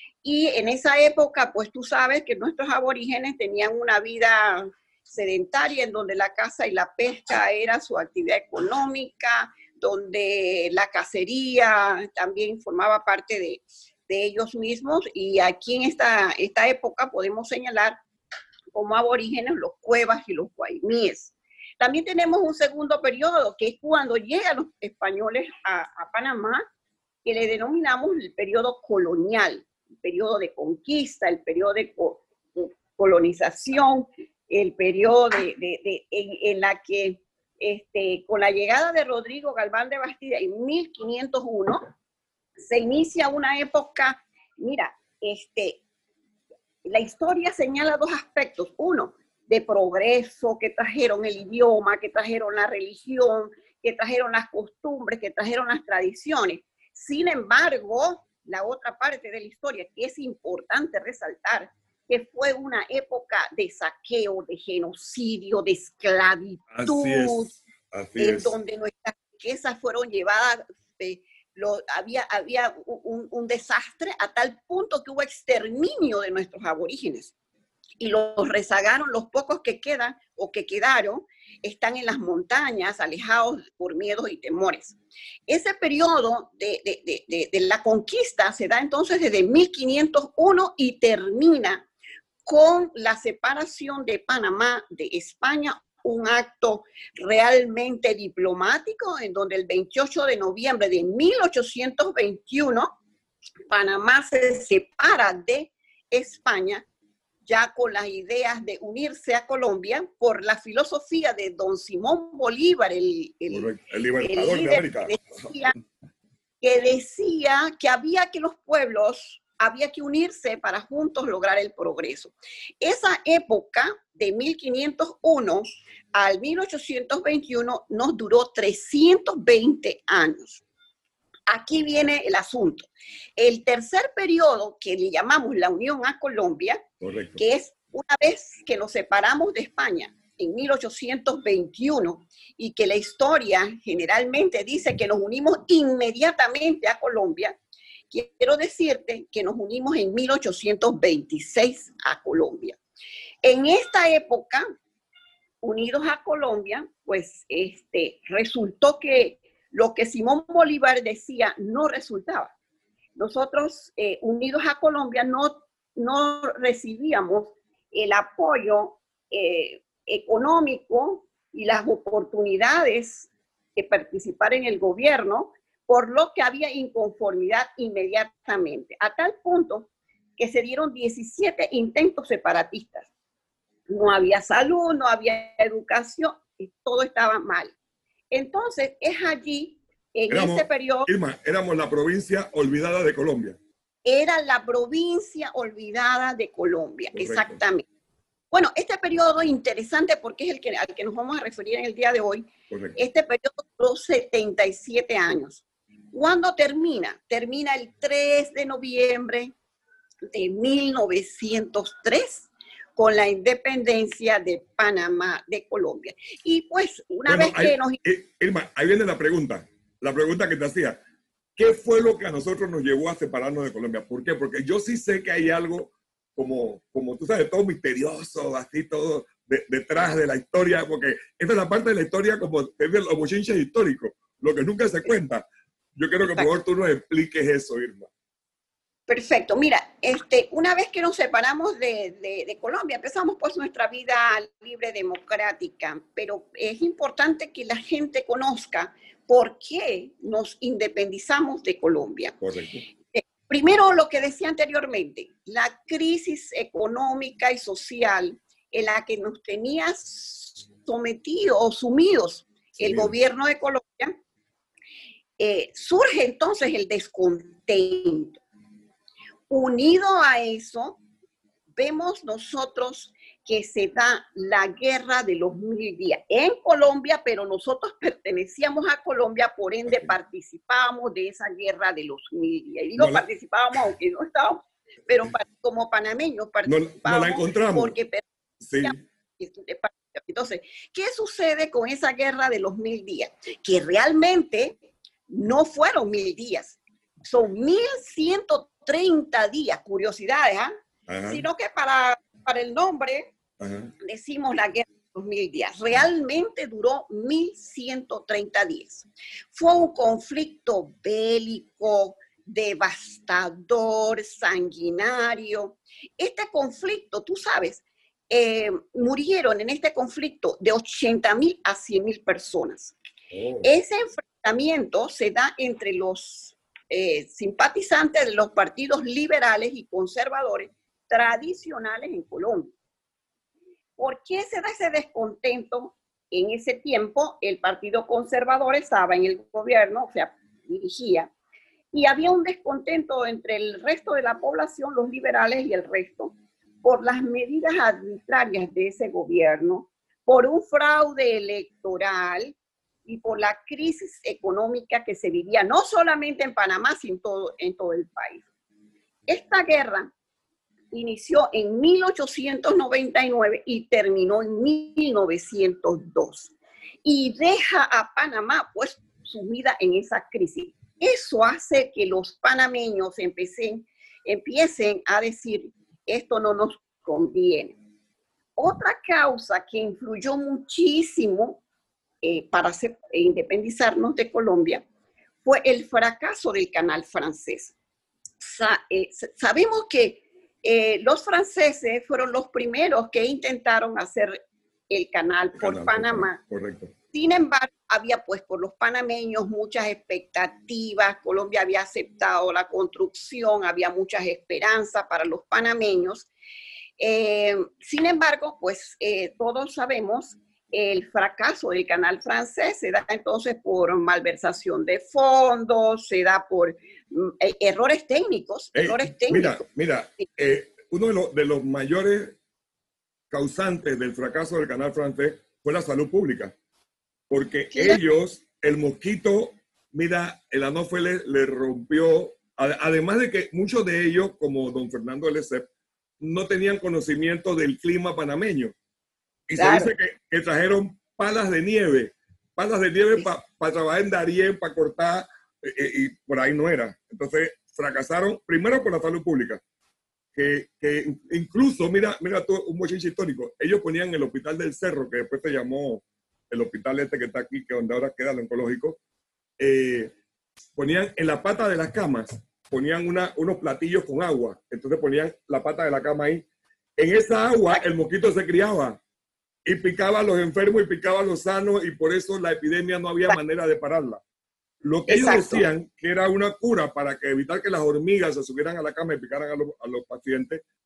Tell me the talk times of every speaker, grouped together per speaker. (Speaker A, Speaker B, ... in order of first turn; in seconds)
Speaker A: 0.2-18.0, 18.7-26.6, 27.2-41.8, 42.6-45.8, 46.8-67.5, 68.2-77.3, 78.0-85.0, 85.5-91.8, 92.5-102.9, 103.7-106.8, 107.5-113.7, 114.2-115.7, 116.6-130.6, 131.5-136.8, 137.4-147.6, 148.1-152.8, 153.4-154.6, 155.6-162.5, 163.2-183.1, 183.9-187.7, 188.3-191.1, 194.0-197.8, 198.5-209.5, 210.3-218.0, 239.1-252.3, 253.1-264.1, 265.4-268.4, 269.5-271.0, 271.7-288.2, 288.8-294.8, 295.3-300.7, 301.3-303.3, 304.0-322.9, 323.6-332.7, 334.0-341.3, 341.9-358.4, 359.3-360.1, 360.9-366.5, 367.0-377.8, 378.6-381.6, 382.2-384.8, 385.4-387.7, 388.4-396.4, 397.1-406.3, 407.0-419.6, 427.7-428.0, 439.6-439.9, 475.1-475.6
Speaker B: 66.7-68.6, 113.5-115.5, 137.0-137.4, 190.3-193.6, 197.1-197.6, 202.7-203.0, 217.2-221.0, 221.6-235.4, 235.9-238.1, 252.4-252.8, 262.8-263.1, 283.0-283.2, 286.6-287.9, 288.6-289.0, 301.1-301.4, 303.6-303.9, 323.3-323.7, 395.5-396.9, 418.7-422.4, 423.3-426.5, 427.3-435.7, 436.2-438.7, 439.5-449.6, 450.3-459.0, 459.6-460.1, 460.8-466.4, 467.0-469.0, 469.6-474.2, 474.8-480.6